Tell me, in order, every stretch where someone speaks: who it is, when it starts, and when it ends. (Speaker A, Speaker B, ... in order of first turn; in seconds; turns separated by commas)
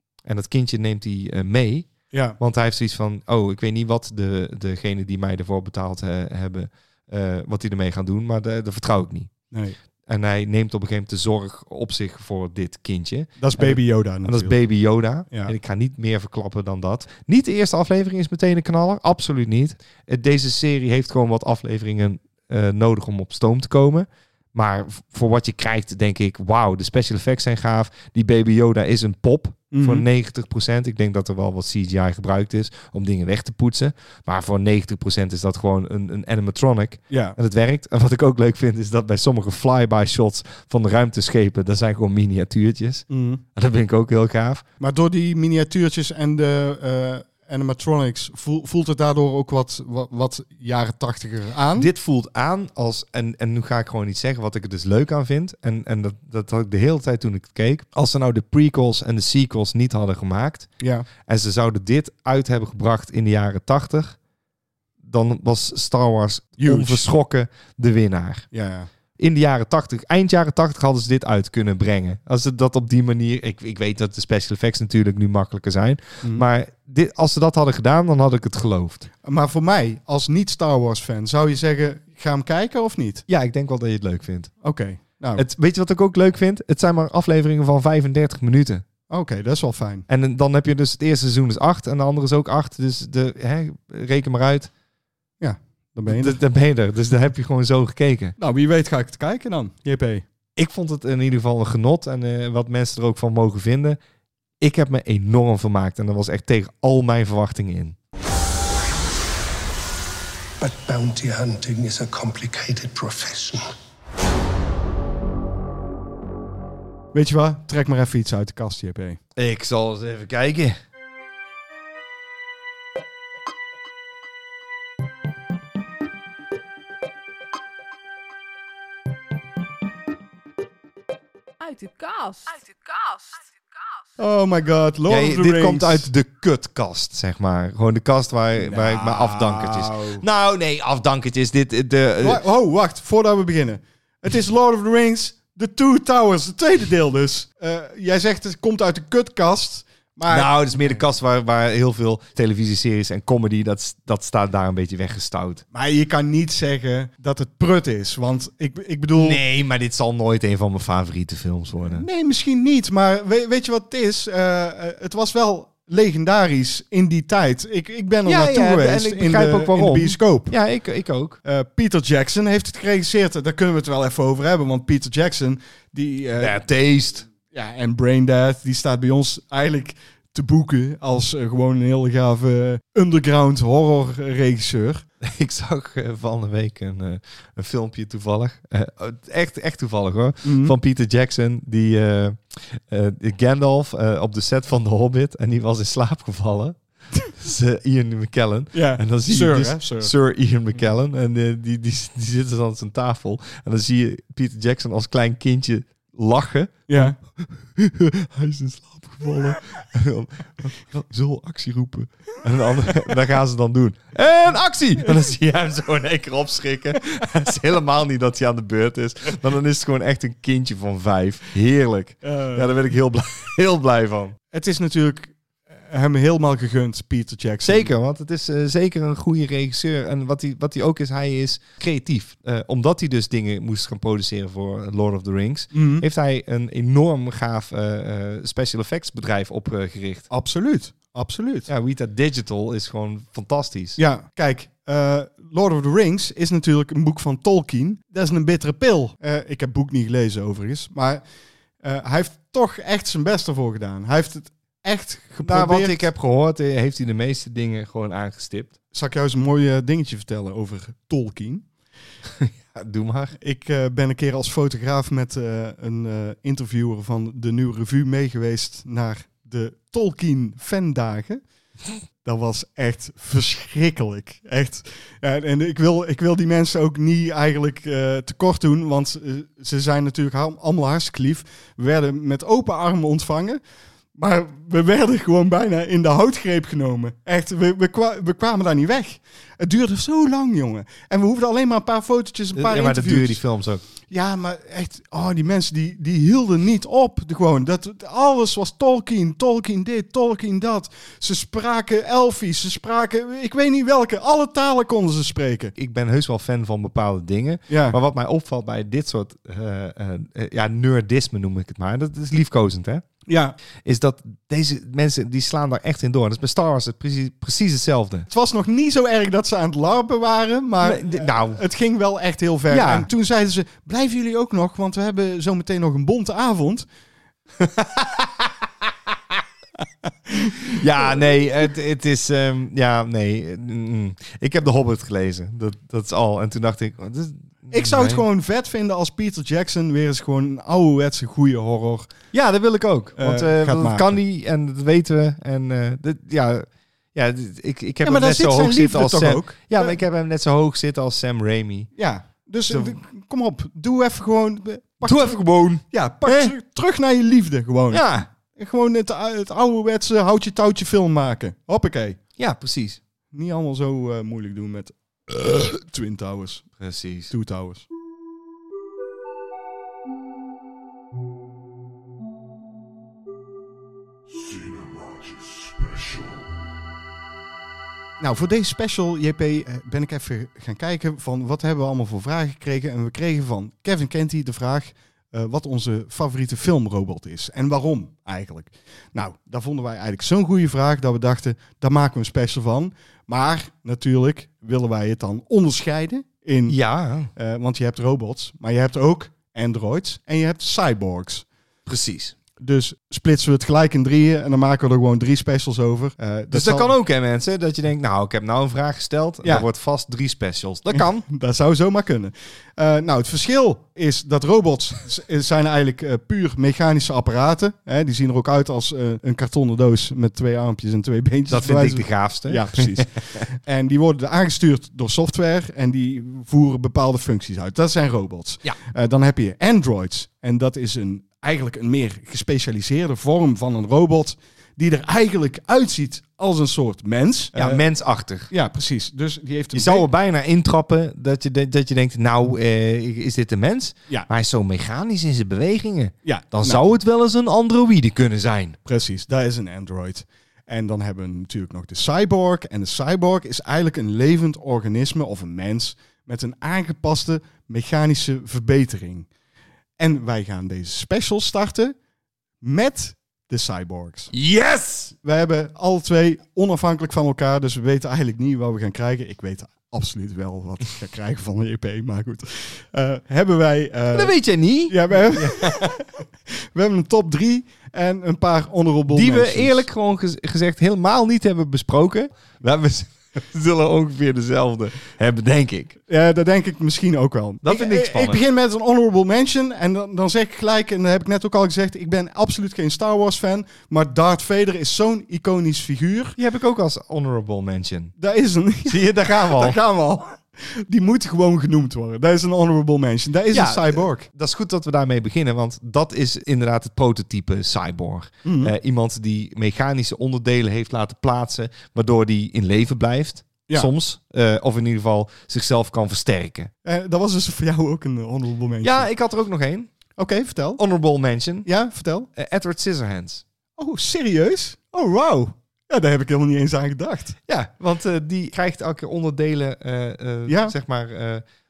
Speaker A: 0.2-9.3, Speaker B: 2.1-2.4, Speaker B: 9.5-9.8, Speaker A: 10.1-44.6, Speaker B: 13.4-14.6, Speaker B: 29.7-30.1, Speaker B: 37.1-37.4, Speaker B: 43.1-43.4, Speaker B: 44.8-51.9, Speaker A: 51.8-60.7, Speaker B: 60.8-61.1, Speaker A: 61.2-64.2, Speaker A: 65.0-68.5, Speaker B: 66.6-67.1, Speaker B: 68.5-68.9, Speaker A: 69.2-79.1, Speaker B: 79.2-83.2, Speaker A: 83.3-84.5, Speaker B: 84.6-85.4, Speaker A: 85.3-88.8, Speaker B: 89.1-90.1, Speaker A: 90.1-94.7, Speaker B: 95.4-96.4, Speaker A: 96.1-98.3, Speaker B: 98.4-100.2, Speaker A: 100.5-104.0, Speaker A: 104.6-108.0, Speaker C: 110.6-113.7, Speaker B: 117.1-119.2, Speaker A: 119.3-120.8, Speaker D: 131.6-134.0, Speaker B: 134.2-136.1, Speaker A: 135.1-142.4, Speaker B: 138.6-140.2, Speaker B: 142.2-151.0, Speaker A: 150.3-155.6, Speaker B: 155.7-159.4, Speaker A: 159.1-162.1, Speaker B: 161.9-170.5, Speaker A: 168.2-171.4, Speaker B: 171.4-176.6, Speaker A: 176.4-177.3, Speaker B: 177.5-185.0, Speaker A: 185.2-224.3, Speaker B: 190.4-190.7, Speaker B: 198.7-200.1, Speaker B: 206.9-207.2, Speaker B: 222.2-222.7, Speaker B: 224.5-225.3, Speaker B: 225.9-227.9, Speaker A: 227.6-240.3, Speaker B: 235.7-236.0, Speaker B: 240.3-241.7, Speaker A: 241.7-244.0, Speaker B: 244.0-251.2, Speaker B: 251.8-256.1, Speaker A: 255.4-258.7, Speaker B: 258.9-261.7, Speaker A: 262.4-263.4, Speaker B: 263.4-271.4, Speaker B: 272.2-283.6, Speaker B: 284.1-293.4, Speaker A: 292.5-293.8, Speaker B: 294.1-305.7, Speaker A: 305.8-313.0, Speaker B: 307.7-308.0, Speaker B: 313.3-313.5, Speaker A: 313.8-318.2, Speaker B: 318.3-326.9, Speaker A: 320.8-321.6, Speaker A: 322.7-323.1, Speaker A: 327.6-328.5, Speaker B: 330.1-331.0, Speaker A: 330.6-338.2, Speaker B: 337.7-342.1, Speaker A: 342.3-351.9, Speaker B: 343.1-344.2, Speaker B: 348.0-350.0, Speaker B: 351.9-362.2, Speaker A: 352.7-353.0, Speaker A: 355.0-356.5, Speaker A: 357.9-358.3, Speaker A: 362.4-363.0, Speaker B: 363.3-366.7, Speaker A: 366.8-367.3, Speaker B: 367.3-367.9, Speaker B: 378.2-396.8, Speaker A: 396.7-397.3, Speaker B: 397.3-401.4, Speaker A: 401.9-402.3, Speaker B: 402.6-406.9, Speaker A: 406.5-411.2, Speaker B: 410.9-437.8, Speaker A: 421.5-423.4, Speaker A: 437.5-438.5, Speaker B: 438.5-440.1, Speaker A: 439.7-448.8, Speaker B: 446.2-446.9, Speaker B: 448.8-459.3, Speaker B: 460.0-461.9, Speaker B: 462.6-464.3, Speaker A: 464.3-465.1, Speaker B: 465.2-479.8, Speaker A: 474.1-476.0, Speaker A: 479.1-486.0, Speaker B: 486.1-496.4, Speaker A: 487.6-488.4, Speaker A: 496.4-498.1, Speaker B: 498.2-504.2, Speaker A: 498.9-499.8, Speaker A: 503.5-516.7, Speaker B: 508.4-508.7, Speaker B: 516.8-519.1, Speaker A: 518.8-519.9, Speaker B: 520.2-520.8, Speaker A: 520.8-521.7, Speaker B: 521.6-522.3, Speaker A: 522.3-523.4, Speaker B: 523.8-527.4, Speaker A: 527.5-531.4, Speaker B: 530.5-530.7